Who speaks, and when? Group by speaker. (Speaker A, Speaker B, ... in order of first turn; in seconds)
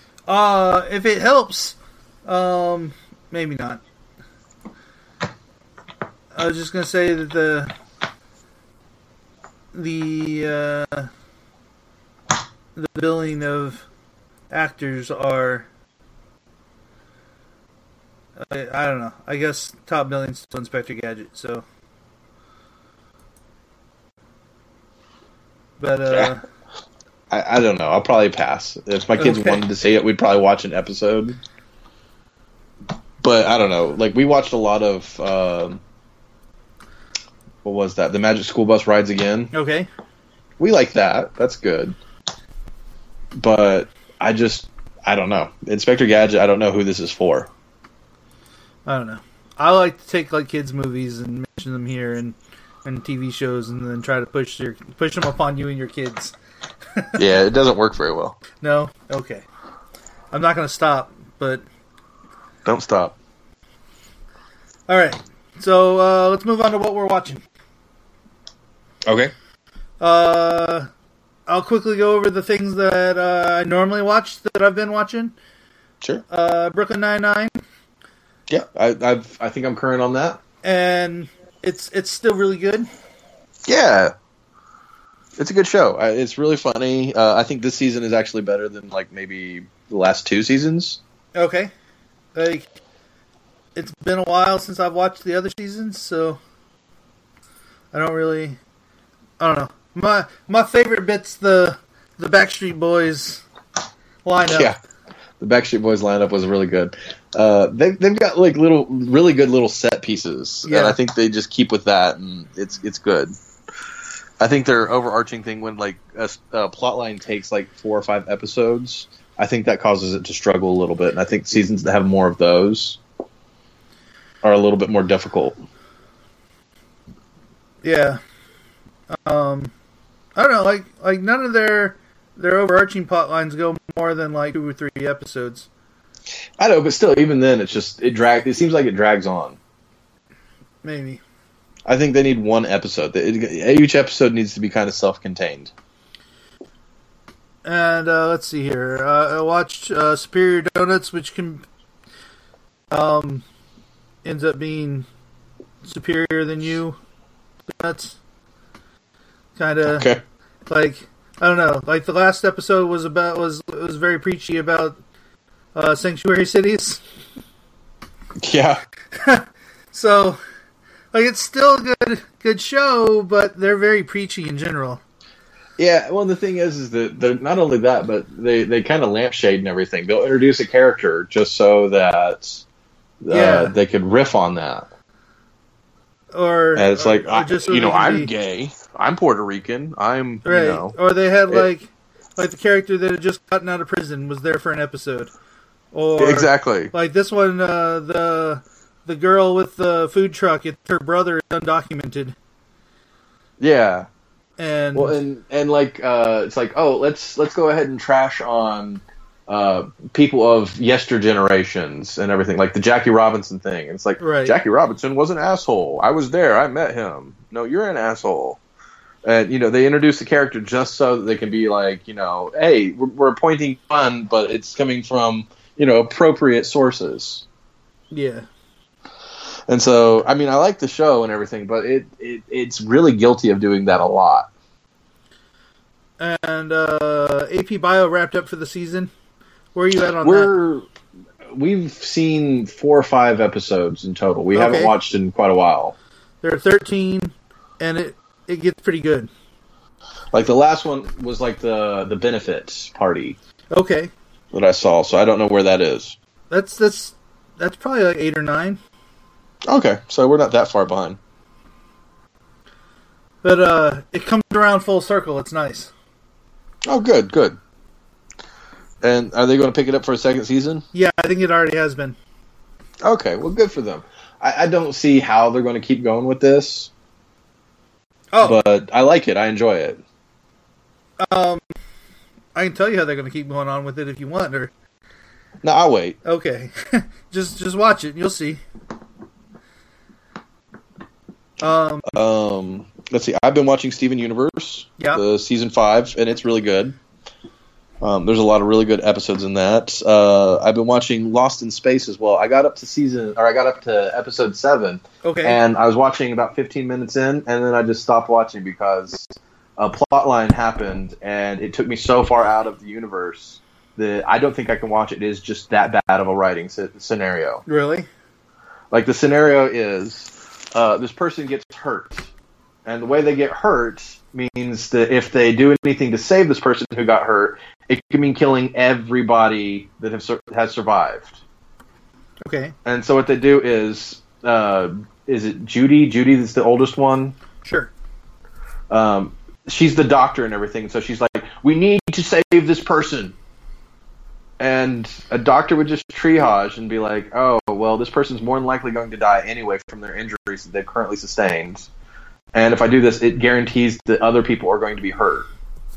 Speaker A: 0.3-3.8, 6.3-7.7, 9.7-11.1, 12.7-13.8, 14.5-15.7, 18.4-21.6, 25.8-26.4, 29.2-29.6, 39.5-39.9, 48.9-56.3, 56.9-57.2, 58.6-59.4, 60.3-61.6, 64.9-67.4, 70.0-70.9, 71.5-75.3, 76.3-77.6, 80.6-82.9, 91.3-91.7, 92.3-92.7, 93.7-96.4, 97.9-98.6, 99.4-103.4, 104.2-104.7, 110.6-111.0, 127.8-128.2, 129.1-129.7, 130.3-135.7, 140.8-141.2, 147.6-151.6, 152.9-153.4, 154.2-155.1, 155.8-157.0, 157.7-158.2, 159.6-160.1, 160.7-165.0, 165.7-167.0, 169.1-170.4, 171.1-175.0, 183.3-183.7, 186.3-188.3, 190.4-195.3, 195.9-202.3, 204.6-205.2, 214.2-214.6, 228.1-228.5, 236.2-239.1, 239.7-240.5, 244.5-244.9, 246.4-249.3, 253.7-254.1, 256.5-258.8, 263.4-265.9, 270.9-272.1, 278.3-278.6, 281.2-281.6, 282.5-284.7, 286.2-288.6, 291.6-292.1, 305.2-305.6, 317.6-318.1, 332.4-332.7, 337.6-337.9
Speaker B: 27.3-31.4, 33.2-35.8, 37.6-39.5, 40.6-42.0, 43.4-47.5, 57.1-58.4, 62.6-63.1, 69.0-69.3, 78.5-80.4, 83.7-84.1, 85.4-91.0, 104.5-104.8, 105.4-113.3, 114.4-123.0, 124.4-125.6, 136.6-139.6, 141.9-145.7, 159.9-160.2, 168.4-168.8, 175.8-182.6, 183.2-184.9, 186.8-190.9, 196.2-196.9, 203.6-204.1, 204.9-218.6, 219.2-227.4, 229.7-234.5, 240.2-240.9, 241.5-245.9, 250.3-253.4, 254.5-256.1, 259.7-261.2, 266.9-267.6, 269.0-270.8, 273.0-276.9, 278.4-280.0, 285.6-286.2, 292.1-297.0, 298.0-317.6, 318.9-322.3, 322.9-331.4, 332.8-337.3, 338.9-343.3, 344.6-351.9, 352.5-355.5